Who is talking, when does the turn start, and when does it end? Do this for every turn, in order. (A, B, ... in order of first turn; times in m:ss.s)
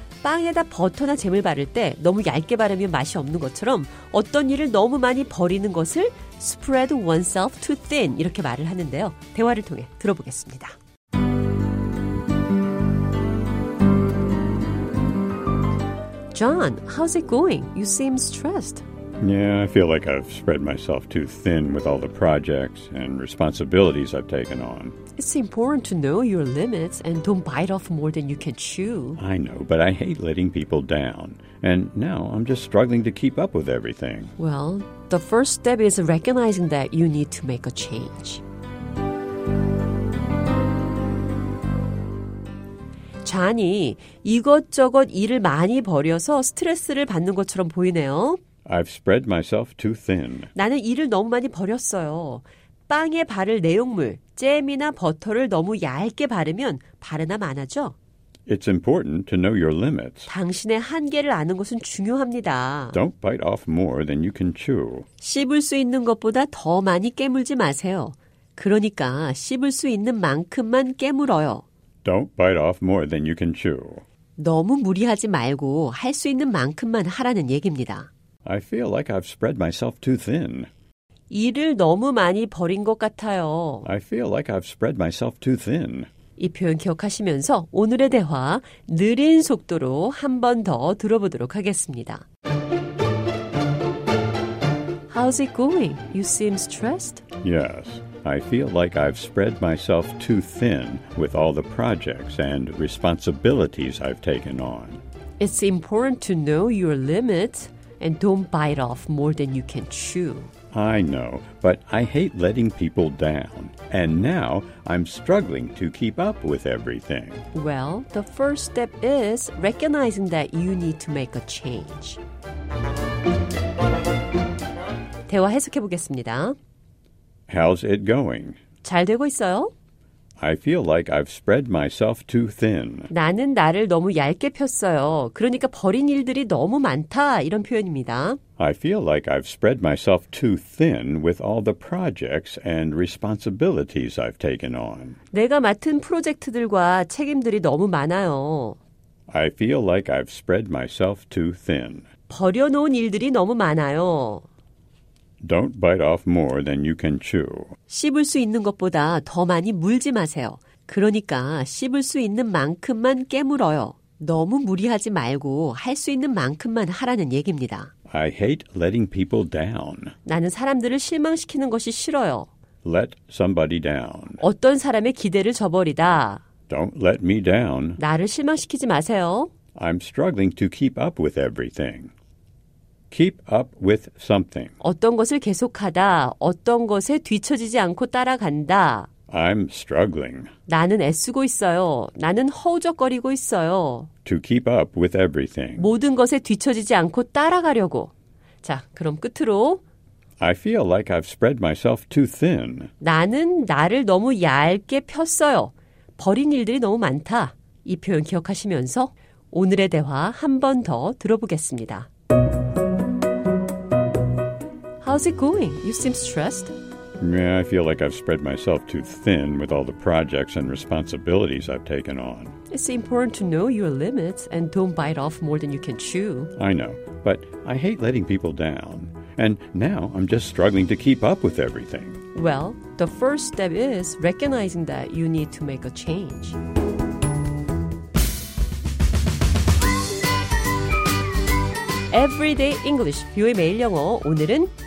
0:00.2-0:10.8 A
0:16.3-0:18.8 A
0:19.2-0:25.0 B
0:25.2-0:29.2 A
0:29.2-0:34.3 B
0:34.4-0:38.4 A
0:43.2-0:48.4 A
0:48.6-0:50.5 B
0:50.5-0:57.9 A
0:58.5-1:00.3 B
1:00.3-1:03.0 A
1:02.9-1:05.0 B
1:05.2-1:11.6 A
1:12.0-1:14.0 B
1:14.4-1:18.1 A
1:18.4-1:20.7 B
1:21.3-1:23.9 A
1:23.8-1:26.1 B
1:26.4-1:32.2 A
1:35.1-1:37.2 A
1:37.4-1:45.0 B
1:45.4-1:50.5 A
1:50.7-1:57.4 B
1:57.5-2:02.2 A
2:05.3-2:06.6 A
2:07.5-2:08.6 B
2:08.8-2:09.7 A
2:10.4-2:13.1 B
2:13.1-2:18.4 A
2:18.6-2:25.2 B
2:25.3-2:28.8 A
2:29.3-2:32.1 B
2:32.3-2:34.5 A
2:35.4-2:37.7 B
2:37.9-2:47.9 A
2:48.1-2:50.1 B
2:50.2-2:52.5 A
2:52.8-2:54.4 B
2:54.4-2:56.4 A
2:56.7-2:58.0 B
2:58.0-2:59.5 A
2:59.7-3:02.1 B
3:03.1-3:04.7 B
3:04.8-3:09.1 A
3:09.3-3:10.5 B
3:10.7-3:14.1 A
3:14.2-3:15.9 B
3:15.8-3:19.8 A
3:20.4-3:22.9 B
3:23.0-3:32.1 A
3:35.0-3:36.7 A
3:37.2-3:42.5 B
3:42.7-3:46.5 A
3:46.6-3:52.2 B
3:52.3-3:56.6 A
4:02.1-4:04.7 A